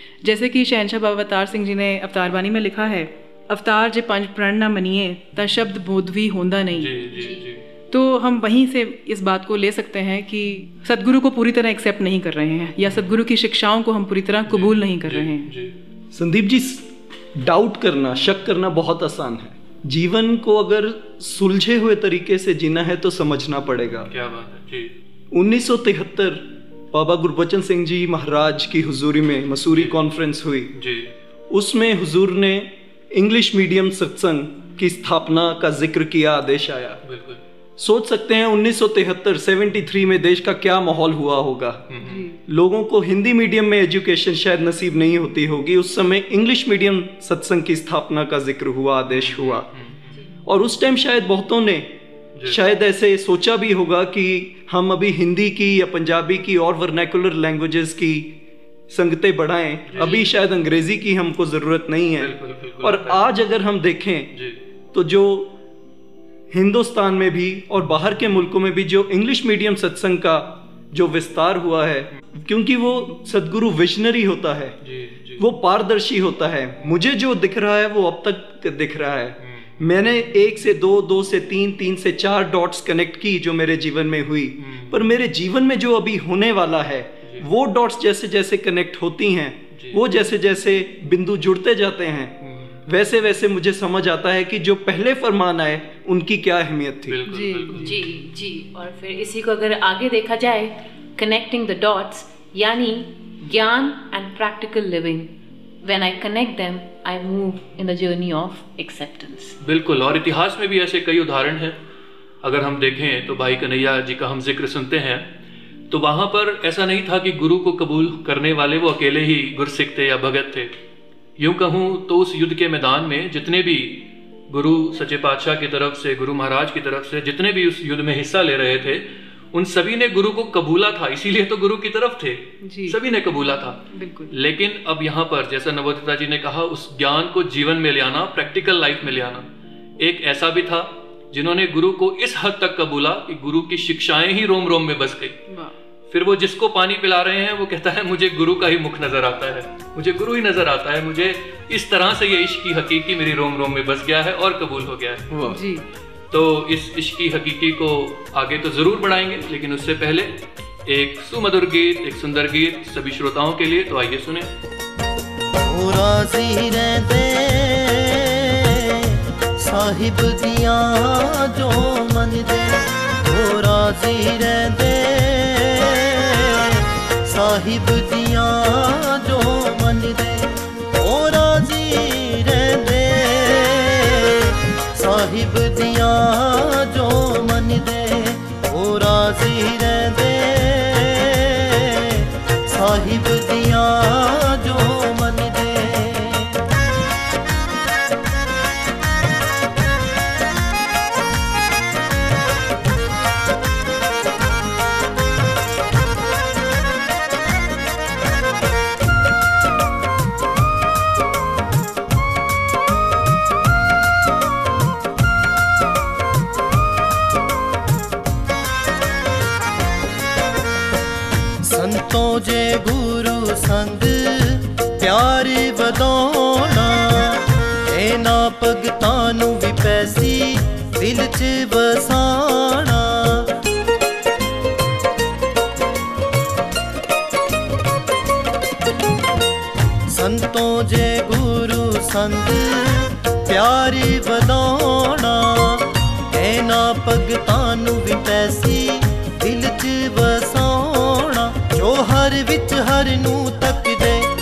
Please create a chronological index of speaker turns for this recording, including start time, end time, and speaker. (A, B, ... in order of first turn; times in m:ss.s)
0:00.2-0:07.0 A
0:06.8-0:07.6 B
0:07.2-0:07.4 C
0:07.9-0:15.5 A
0:12.8-0:13.1 B
0:14.5-0:15.7 B
0:16.1-0:24.1 D
0:24.1-0:25.0 B
0:25.3-0:30.7 D
0:29.7-0:30.0 B
0:30.7-0:31.1 B
0:31.5-0:37.0 D
0:37.0-0:37.4 B
0:37.8-0:41.8 D
0:41.9-0:42.3 B
0:42.0-0:42.4 A
0:42.5-0:49.7 D
0:49.1-0:50.1 B
0:50.4-0:51.9 D
0:52.4-0:58.3 D
0:58.9-1:04.3 D
0:59.9-1:00.2 B
1:02.2-1:03.2 B
1:04.9-1:05.5 D
1:06.5-1:14.8 D
1:14.8-1:15.4 B
1:15.4-1:32.4 D
1:19.4-1:19.8 B
1:24.6-1:25.1 B
1:29.7-1:30.0 B
1:32.4-1:32.8 B
1:32.9-1:37.2 D
1:37.1-1:38.0 B
1:37.3-1:37.9 A
1:37.7-1:45.3 C
1:45.8-1:49.6 C
1:49.6-1:51.8 B
1:52.4-1:55.3 B
1:55.9-2:00.7 B
2:01.4-2:19.5 B
2:12.6-2:13.0 A
2:13.9-2:14.3 A
2:20.0-2:25.4 B
2:25.5-2:25.8 A
2:26.1-2:35.6 B
2:35.5-2:35.8 A
2:36.3-2:44.5 B
2:45.6-3:16.6 E
3:41.6-3:53.5 E
4:00.1-4:14.3 E